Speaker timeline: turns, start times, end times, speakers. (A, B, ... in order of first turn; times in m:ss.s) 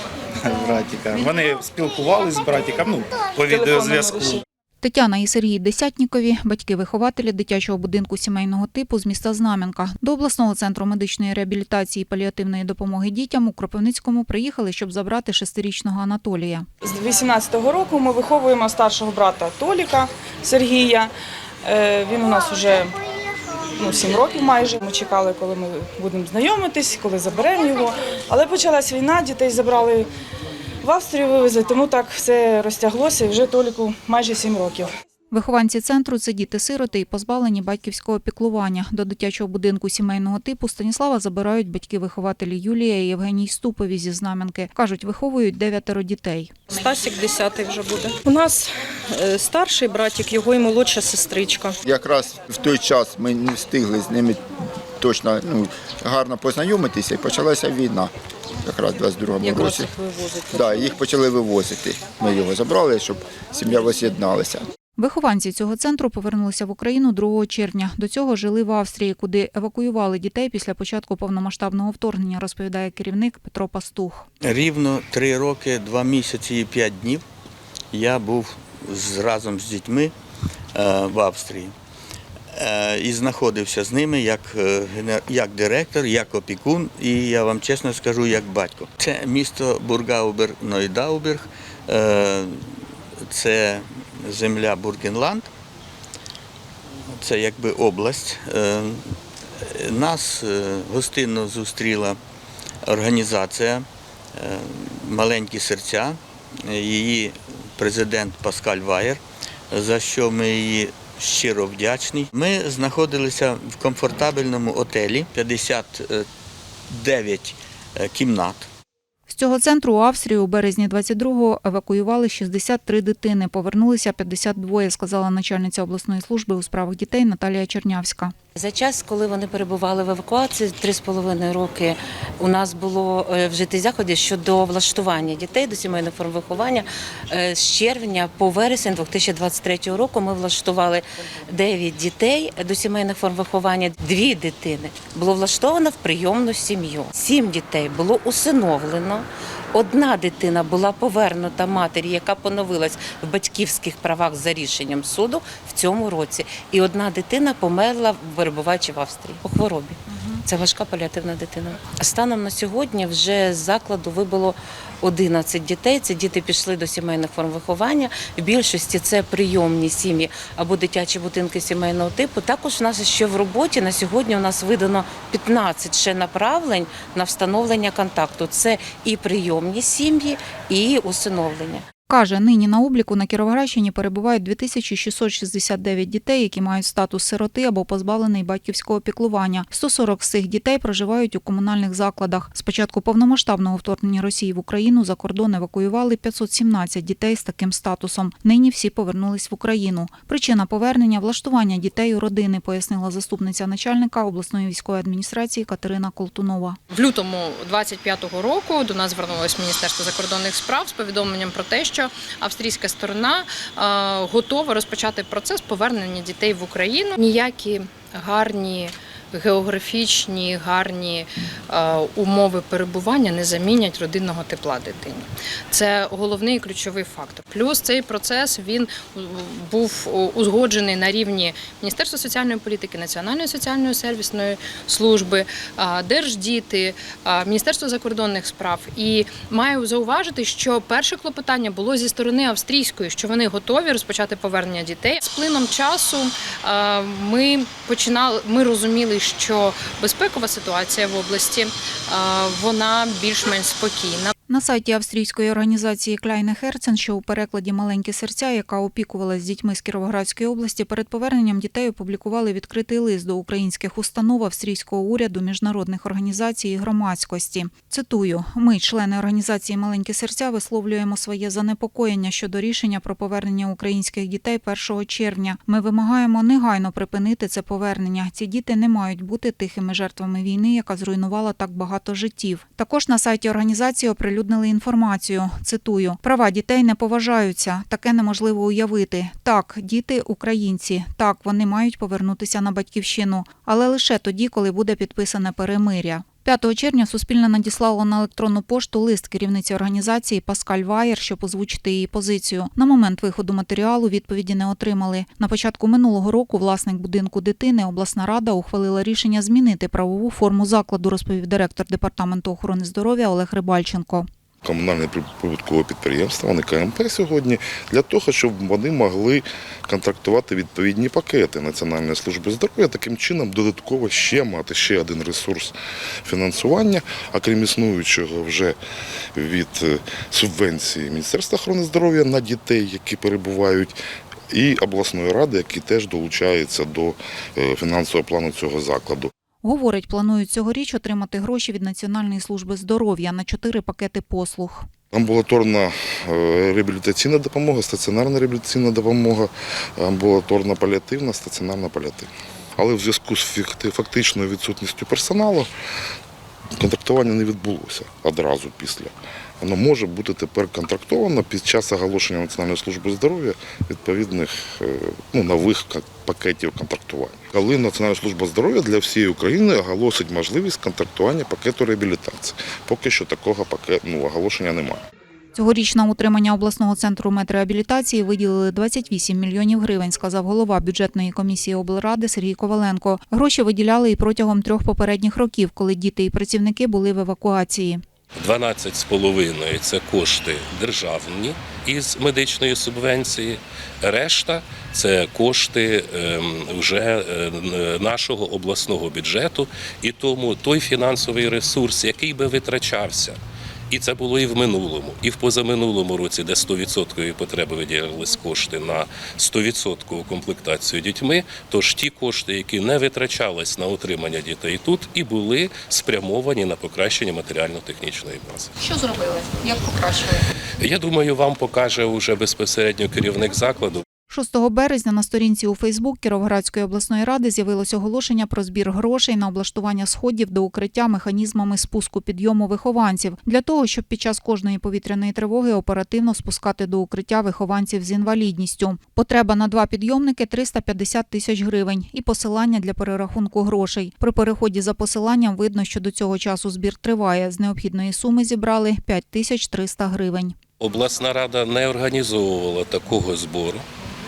0:00.4-0:04.4 A
0:03.5-0:04.4 B
0:04.8-0:16.7 C
0:16.8-0:21.1 B
0:21.6-0:23.0 B
0:23.8-0:30.1 B
0:30.8-0:34.9 B
0:35.3-0:46.6 C
0:46.7-0:51.8 D
0:51.9-0:54.4 E
0:55.0-0:58.1 E
0:58.6-0:59.9 E
0:59.4-1:01.0 D
1:00.5-1:04.7 E
1:05.0-1:14.3 C
1:14.4-1:17.2 F
1:17.9-1:20.1 F
1:20.8-1:21.7 F
1:22.5-1:35.5 F
1:37.1-1:42.2 F
1:42.8-1:43.8 F
1:44.4-1:49.2 F
1:49.7-1:56.2 F
1:56.9-1:58.7 F
1:59.3-2:08.3 C
2:08.6-3:01.8 G
2:40.1-2:40.4 C
3:02.1-3:26.8 C
3:26.9-4:14.3 H
4:14.5-5:14.3 C
5:14.6-5:25.7 I
5:26.3-5:28.8 I
5:29.4-5:34.0 I
5:34.5-5:39.3 I
5:39.6-5:44.9 C
5:45.1-5:55.7 I
5:56.8-6:15.0 I
6:15.6-6:28.0 C
6:28.4-6:43.4 J
6:43.9-6:58.7 J
6:58.8-7:00.4 C
7:00.8-7:04.0 J
7:04.3-7:30.6 C
7:30.8-7:33.8 J